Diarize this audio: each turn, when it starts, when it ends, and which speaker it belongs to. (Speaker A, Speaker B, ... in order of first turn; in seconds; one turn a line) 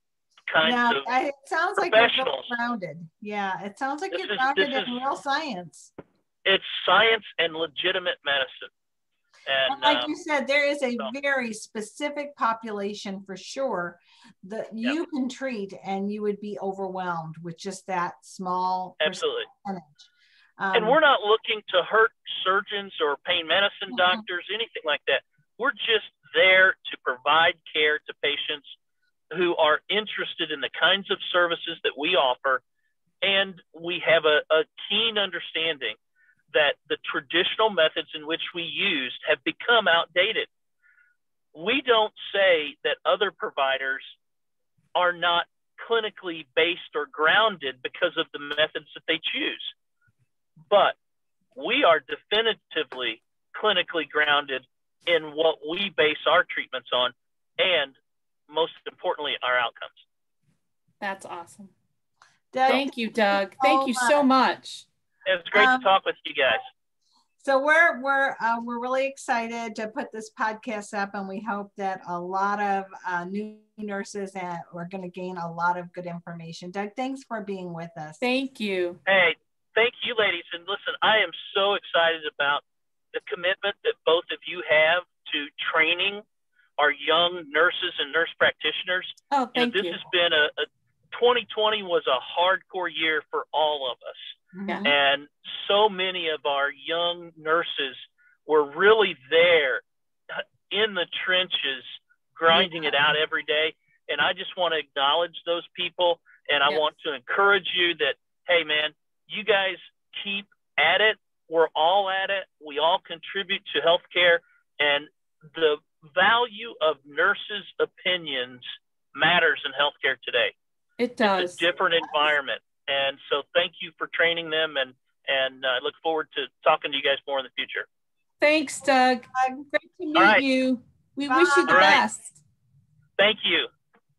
Speaker A: 0.5-1.1
Speaker B: 0.6-5.9
Speaker A: 1.8-2.5
Speaker A: 4.1-5.0
Speaker A: 6.5-8.7
Speaker A: 9.5-10.1
Speaker B: 9.7-20.1
Speaker A: 19.0-19.5
Speaker B: 20.6-21.0
Speaker A: 20.7-28.8
Speaker B: 23.9-24.2
Speaker A: 29.3-32.6
Speaker A: 33.2-36.0
Speaker A: 36.5-40.5
Speaker A: 41.5-44.2
Speaker A: 45.0-49.7
Speaker A: 50.7-51.0
Speaker A: 51.5-58.0
Speaker A: 58.5-60.0
Speaker C: 61.0-61.7
Speaker B: 62.5-64.3
Speaker C: 62.7-64.9
Speaker A: 65.3-66.7
Speaker B: 65.5-65.9
Speaker B: 67.4-78.2
Speaker C: 78.2-79.0
Speaker A: 79.1-86.2
Speaker A: 86.8-120.5
Speaker C: 89.3-90.0
Speaker B: 94.5-95.0
Speaker C: 94.7-95.0
Speaker B: 102.5-102.8
Speaker C: 121.0-121.7
Speaker A: 121.2-127.9
Speaker C: 128.4-132.4
Speaker B: 129.3-129.7
Speaker A: 130.2-130.4
Speaker B: 131.3-132.0
Speaker A: 131.7-132.0
Speaker A: 133.2-133.7